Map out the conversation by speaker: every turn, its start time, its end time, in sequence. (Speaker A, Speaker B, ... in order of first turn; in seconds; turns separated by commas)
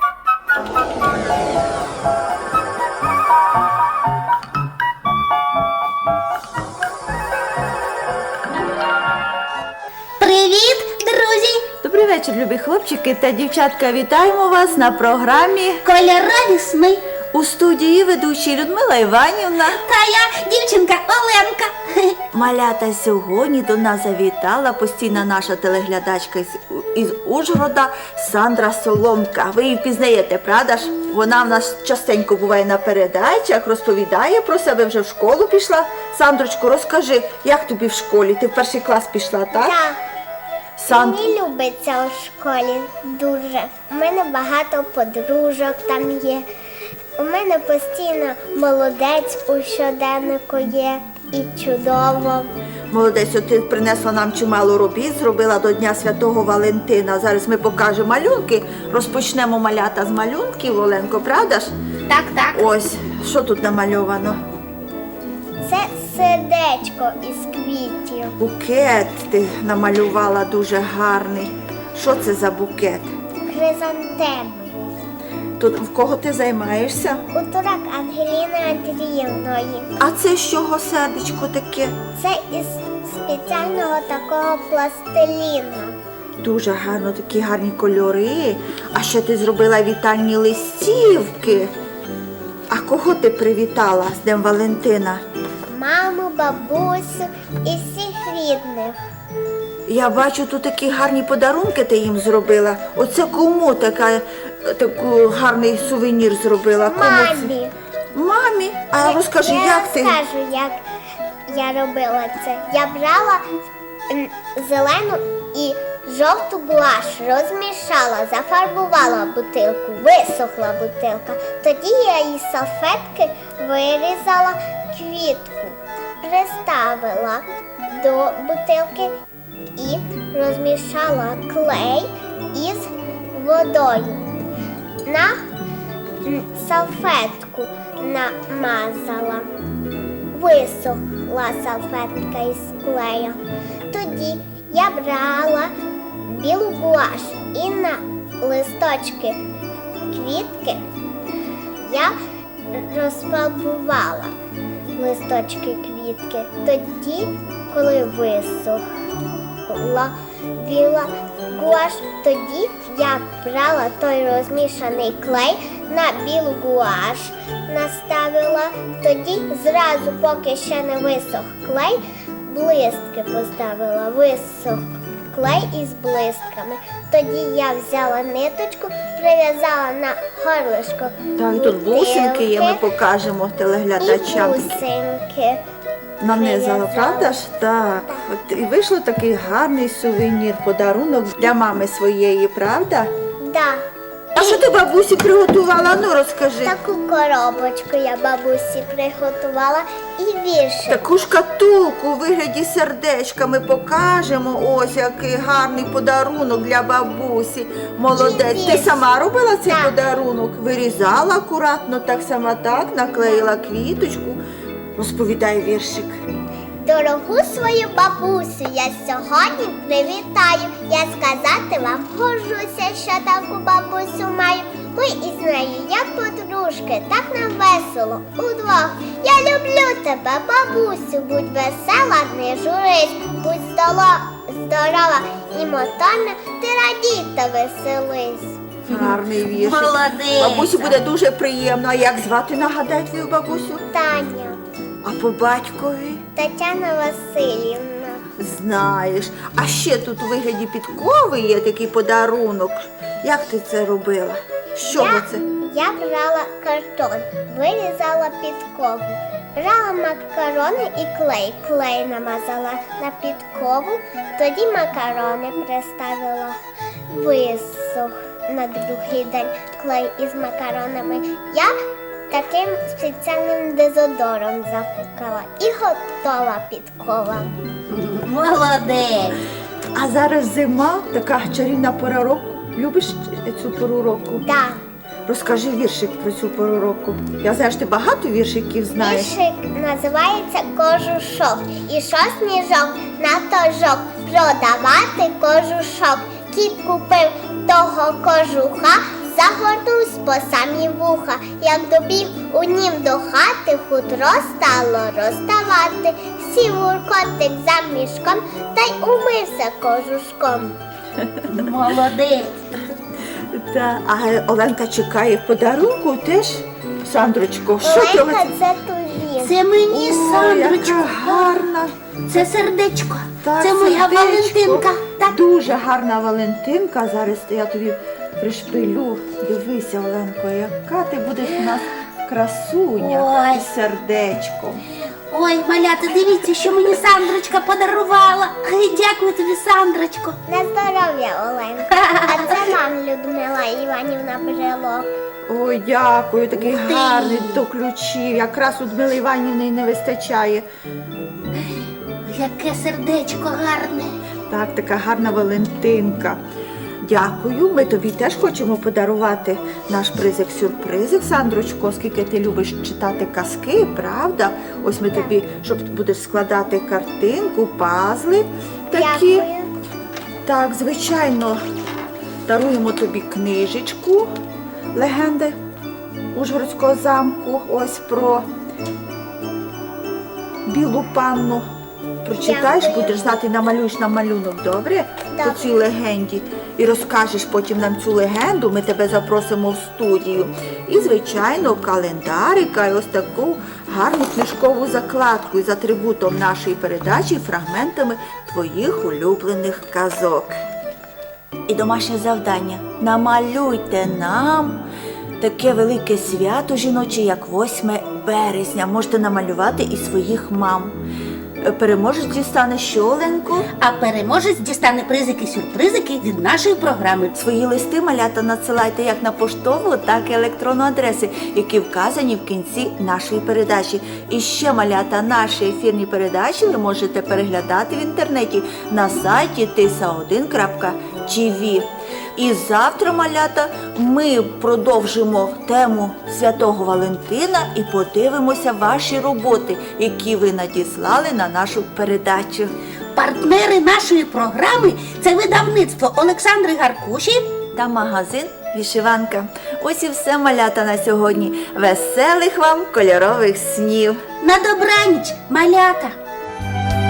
Speaker A: 10.2-11.7, Speaker B: 11.8-15.8, Speaker A: 15.9-17.0, Speaker B: 17.3-19.8, Speaker A: 19.9-22.2, Speaker B: 22.3-39.8, Speaker C: 39.5-40.0, Speaker B: 40.8-41.2, Speaker C: 40.9-46.5, Speaker C: 47.2-52.5, Speaker B: 52.9-61.7, Speaker A: 62.1-62.6, Speaker B: 62.5-64.4, Speaker C: 65.6-68.3, Speaker B: 68.4-73.1, Speaker C: 73.4-74.9, Speaker B: 75.6-77.2, Speaker C: 77.3-79.9, Speaker B: 80.0-82.0, Speaker C: 82.2-85.9, Speaker B: 86.4-91.7, Speaker B: 92.7-95.2, Speaker C: 95.7-99.0, Speaker B: 99.9-107.5, Speaker C: 106.8-107.7, Speaker B: 108.1-110.2, Speaker C: 109.0-110.8, Speaker C: 111.5-113.4, Speaker C: 114.1-129.1, Speaker C: 129.8-134.2, Speaker C: 135.1-135.4, Speaker C: 136.2-139.4, Speaker C: 140.3-143.4, Speaker C: 143.9-145.7, Speaker C: 146.2-149.4, Speaker C: 150.1-150.8, Speaker C: 151.8-152.1, Speaker C: 152.7-154.3, Speaker C: 154.9-158.8, Speaker C: 159.7-182.8, Speaker B: 181.4-184.8, Speaker C: 184.0-185.6, Speaker B: 186.2-193.1, Speaker C: 186.2-188.2, Speaker C: 193.4-193.8, Speaker B: 194.3-196.8, Speaker C: 196.6-201.1, Speaker B: 200.9-214.4, Speaker C: 208.1-209.0, Speaker C: 209.7-209.9, Speaker B: 214.9-216.2, Speaker C: 216.8-238.6, Speaker B: 238.9-243.8, Speaker A: 238.9-240.9, Speaker C: 243.9-244.6, Speaker B: 245.0-246.2, Speaker C: 246.3-248.2, Speaker B: 248.3-255.4, Speaker C: 254.9-266.6, Speaker C: 267.1-271.7, Speaker C: 272.3-277.5, Speaker A: 278.0-279.2, Speaker B: 279.9-284.4, Speaker C: 284.4-284.8, Speaker B: 285.3-289.3, Speaker C: 288.9-310.8, Speaker A: 311.6-312.5, Speaker B: 313.5-318.5, Speaker C: 317.8-319.6, Speaker A: 319.4-321.6, Speaker B: 319.9-321.9, Speaker A: 322.3-325.3, Speaker B: 323.4-334.8, Speaker A: 333.0-333.6, Speaker A: 335.3-340.4, Speaker C: 340.5-345.1, Speaker A: 342.0-342.4, Speaker B: 345.5-350.6, Speaker A: 346.6-347.6, Speaker A: 352.3-354.1, Speaker B: 354.5-356.4, Speaker B: 357.0-369.4, Speaker C: 368.9-369.7, Speaker B: 370.4-371.6, Speaker B: 372.4-374.3, Speaker B: 374.9-375.6, Speaker B: 376.3-378.4, Speaker B: 380.6-381.6, Speaker B: 382.2-400.6, Speaker C: 382.4-383.3, Speaker C: 385.3-385.8, Speaker B: 401.7-404.8, Speaker B: 405.4-411.0, Speaker B: 411.6-413.7, Speaker A: 413.8-417.3, Speaker B: 417.3-442.7, Speaker A: 443.1-447.4, Speaker B: 447.7-454.2, Speaker A: 454.4-456.1